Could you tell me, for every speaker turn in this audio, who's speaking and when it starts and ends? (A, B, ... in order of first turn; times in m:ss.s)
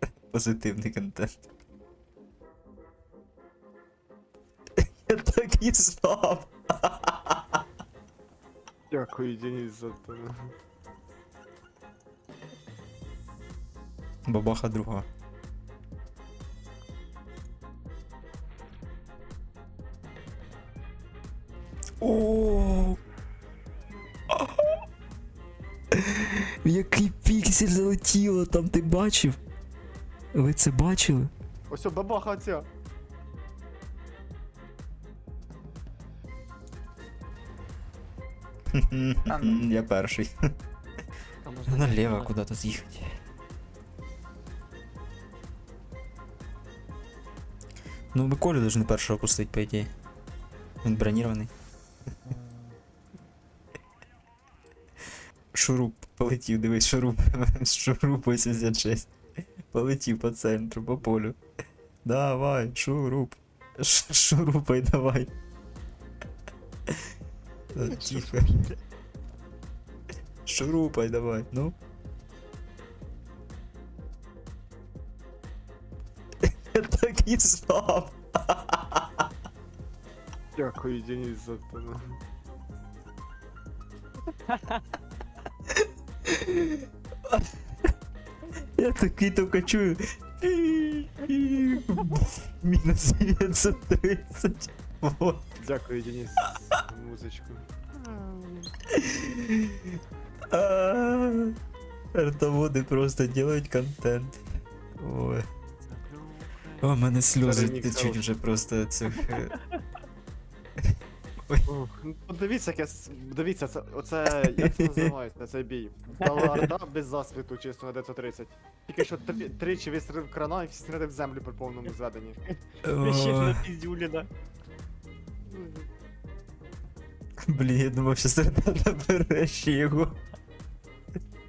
0:00.3-0:01.4 A
0:04.8-0:07.6 A
0:08.9-0:10.3 B
0:14.2-0:15.0 A
0:22.0-0:23.0 A
0:24.3-0:24.8 A
0:25.9-0:29.4 A
0:30.3-0:31.3 A
0:31.7-0:32.7 B
0:38.7-0:40.3 A
0:41.4-0:42.3 C
0:41.7-0:43.2 A
0:48.1-0:49.9 A
0:50.8-0:51.5 A
0:52.2-0:52.8 C
0:55.5-1:01.4 A
1:02.0-1:05.3 A
1:07.7-1:08.6 A
1:10.4-1:11.7 A
1:16.4-1:19.2 A
1:20.6-1:22.2 B
1:24.5-1:24.8 C
1:25.8-1:27.6 A
1:28.8-1:35.5 A
1:35.6-1:38.7 B
1:38.9-1:40.0 A
1:40.5-1:41.5 A
1:42.1-1:44.4 A
1:45.0-1:45.4 A
1:45.8-1:48.2 B
1:46.8-1:49.6 A
1:51.7-2:02.4 B
1:54.6-1:55.1 A
2:02.8-2:03.7 A
2:03.0-2:04.3 C
2:07.4-2:10.2 A